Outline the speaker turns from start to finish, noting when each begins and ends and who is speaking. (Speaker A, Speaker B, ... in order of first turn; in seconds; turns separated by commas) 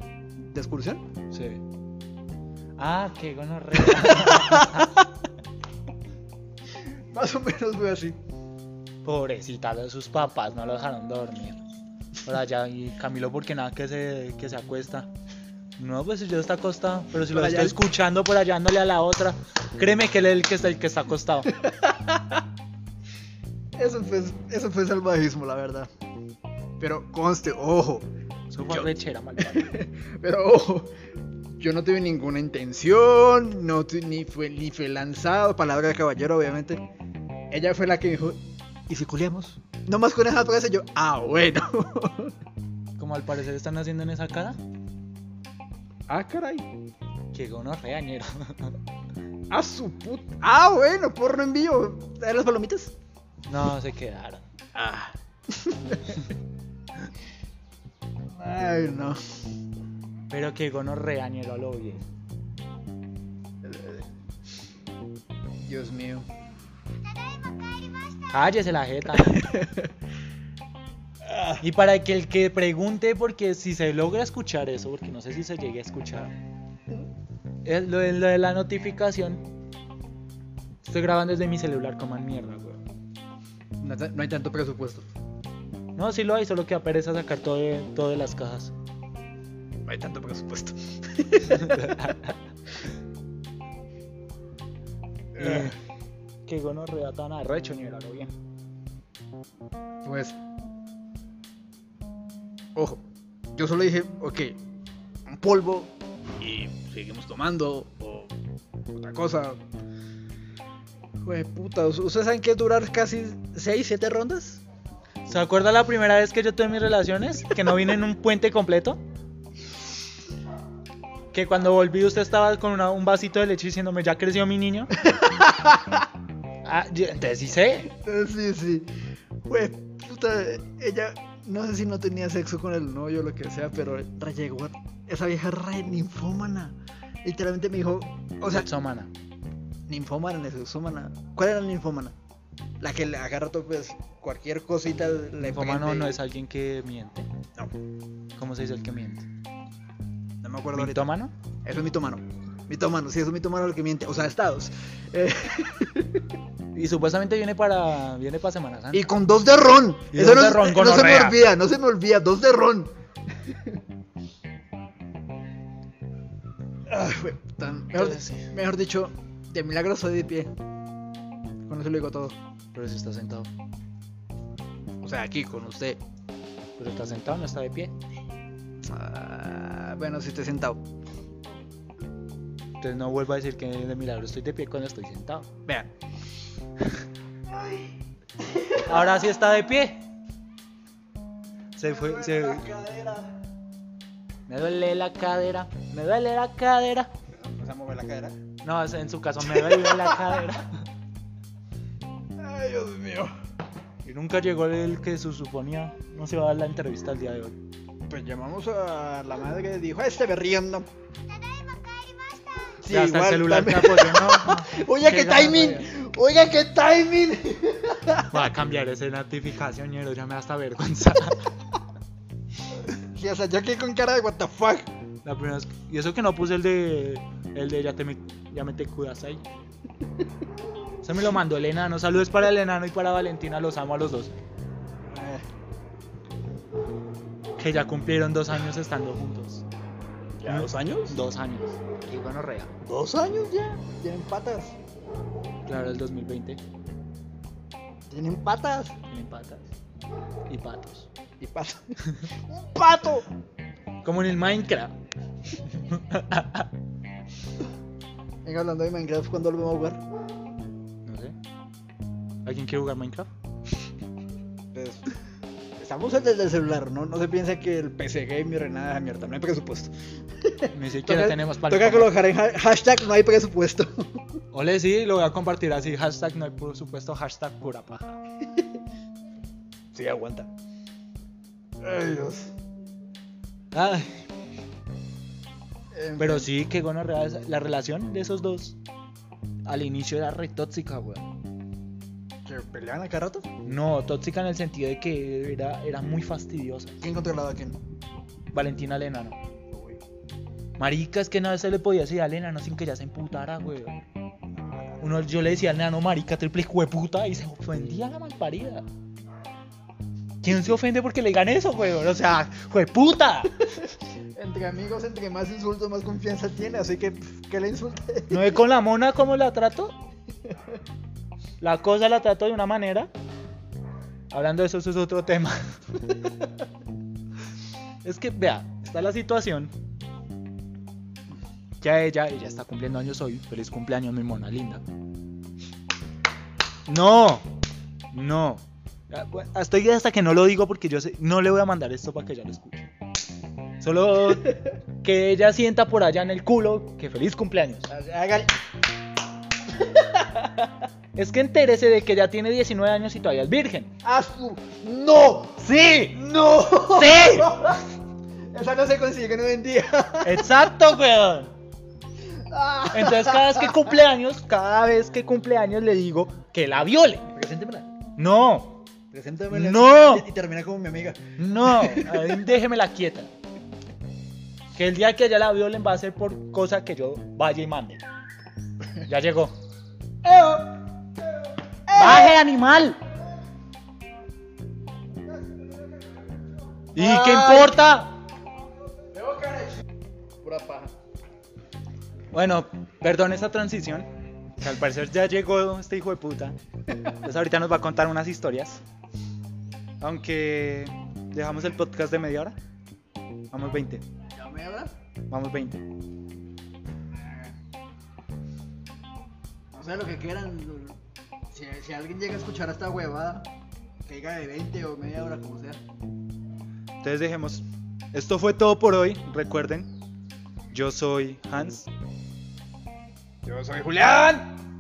Speaker A: 0.4-1.0, Speaker B: 1.3-1.6, Speaker B: 2.8-5.0, Speaker A: 3.8-5.0, Speaker A: 7.1-8.2, Speaker B: 9.0-11.6, Speaker B: 12.2-15.1, Speaker B: 15.8-21.5, Speaker A: 17.2-17.8, Speaker A: 21.6-22.2, Speaker A: 23.8-25.9, Speaker A: 26.8-28.1, Speaker B: 28.5-29.8, Speaker A: 28.7-30.9, Speaker A: 31.6-36.8, Speaker A: 37.5-42.3, Speaker B: 43.0-44.6, Speaker A: 46.1-46.7, Speaker B: 47.3-48.8, Speaker A: 49.5-52.9, Speaker B: 53.5-54.4, Speaker A: 54.8-56.3, Speaker A: 58.4-59.2, Speaker B: 60.3-62.0, Speaker A: 63.6-64.0, Speaker A: 65.6-66.3, Speaker B: 68.3-69.4, Speaker A: 69.1-69.9, Speaker A: 71.3-71.6, Speaker B: 71.6-76.3, Speaker B: 77.7-79.5, Speaker B: 80.8-82.8, Speaker A: 83.8-85.1, Speaker B: 86.0-88.7, Speaker A: 89.9-92.2, Speaker B: 91.5-92.3, Speaker A: 95.3-95.8, Speaker B: 95.4-95.7, Speaker B: 96.5-98.3, Speaker A: 100.0-100.4, Speaker A: 102.8-103.0, Speaker A: 103.5-104.6, Speaker A: 105.3-108.3, Speaker A: 108.9-109.6, Speaker A: 111.2-114.6, Speaker B: 115.3-119.0, Speaker B: 121.3-124.9, Speaker A: 125.1-126.0, Speaker B: 126.6-127.9, Speaker A: 127.9-128.9, Speaker A: 129.5-138.7, Speaker B: 138.5-139.1, Speaker A: 139.9-142.2, Speaker A: 142.8-146.2, Speaker B: 145.4-147.3, Speaker B: 148.4-149.3, Speaker A: 150.4-151.1, Speaker B: 150.8-151.3, Speaker A: 151.7-156.2, Speaker B: 156.7-159.1, Speaker A: 158.9-162.9, Speaker B: 160.1-161.5, Speaker A: 166.9-170.5, Speaker B: 167.9-168.5, Speaker A: 171.7-172.4, Speaker B: 172.7-173.5, Speaker A: 175.0-176.0, Speaker B: 176.8-177.9, Speaker A: 178.8-180.8, Speaker B: 182.8-185.5, Speaker A: 185.7-185.9, Speaker A: 187.5-189.3, Speaker B: 188.8-190.0, Speaker B: 191.8-192.6, Speaker A: 191.8-193.3, Speaker B: 194.5-197.1, Speaker A: 197.3-198.4, Speaker B: 198.6-200.8, Speaker A: 199.4-200.4, Speaker A: 202.4-203.3, Speaker B: 204.1-207.6, Speaker A: 208.1-210.9, Speaker A: 212.8-218.5, Speaker B: 212.9-215.9, Speaker B: 218.3-221.5, Speaker A: 223.0-224.9, Speaker B: 225.2-229.4, Speaker B: 231.0-234.3, Speaker A: 235.1-235.4, Speaker B: 237.6-239.7, Speaker A: 240.4-241.2, Speaker B: 240.4-242.7, Speaker A: 242.8-244.8, Speaker B: 245.7-246.6, Speaker A: 248.1-248.9, Speaker B: 249.1-249.7, Speaker B: 250.5-251.1, Speaker A: 251.4-253.3, Speaker B: 254.0-254.9, Speaker B: 255.7-256.7, Speaker A: 258.4-260.0, Speaker B: 261.1-261.4, Speaker B: 262.4-263.3, Speaker A: 264.7-265.1, Speaker A: 265.8-274.2, Speaker B: 270.7-272.2, Speaker B: 274.5-278.2, Speaker A: 279.9-280.5, Speaker A: 281.8-282.5, Speaker B: 283.7-284.2, Speaker A: 285.9-286.5, Speaker B: 286.2-288.8, Speaker B: 289.7-291.3, Speaker A: 292.5-293.5, Speaker B: 293.6-297.0, Speaker A: 297.0-297.8, Speaker B: 298.5-299.4, Speaker A: 299.7-300.0, Speaker B: 300.8-304.0, Speaker A: 304.5-304.9, Speaker B: 305.0-308.9, Speaker B: 310.4-313.6, Speaker A: 314.4-318.6, Speaker B: 318.3-319.9, Speaker B: 321.6-323.1, Speaker B: 324.3-325.8, Speaker B: 328.0-329.7, Speaker B: 331.8-334.8, Speaker B: 336.9-337.5, Speaker B: 338.1-342.9, Speaker B: 343.8-347.9, Speaker A: 347.9-348.5, Speaker A: 349.8-350.7, Speaker B: 351.1-353.9, Speaker A: 354.0-357.8, Speaker B: 355.6-356.2, Speaker B: 356.8-357.8, Speaker A: 358.5-360.6, Speaker B: 360.2-361.5, Speaker A: 362.3-363.9, Speaker B: 362.9-367.3, Speaker A: 367.3-367.9, Speaker B: 368.2-368.8, Speaker A: 369.1-372.4, Speaker B: 369.5-370.3, Speaker B: 371.4-373.3, Speaker B: 374.8-378.0, Speaker B: 379.0-379.5, Speaker A: 380.2-380.8, Speaker A: 381.9-382.4, Speaker B: 381.9-383.0, Speaker A: 386.9-387.9, Speaker B: 386.9-388.2, Speaker A: 389.1-389.7, Speaker A: 390.4-390.9, Speaker B: 392.3-394.1, Speaker B: 394.6-396.6, Speaker B: 397.2-398.8, Speaker B: 400.0-402.6, Speaker B: 403.5-404.0, Speaker A: 404.3-404.9, Speaker B: 405.3-405.9, Speaker A: 407.2-407.6, Speaker A: 409.7-411.0, Speaker A: 411.5-413.5, Speaker A: 414.1-415.8, Speaker B: 417.0-419.9, Speaker B: 420.7-421.9, Speaker A: 423.4-424.5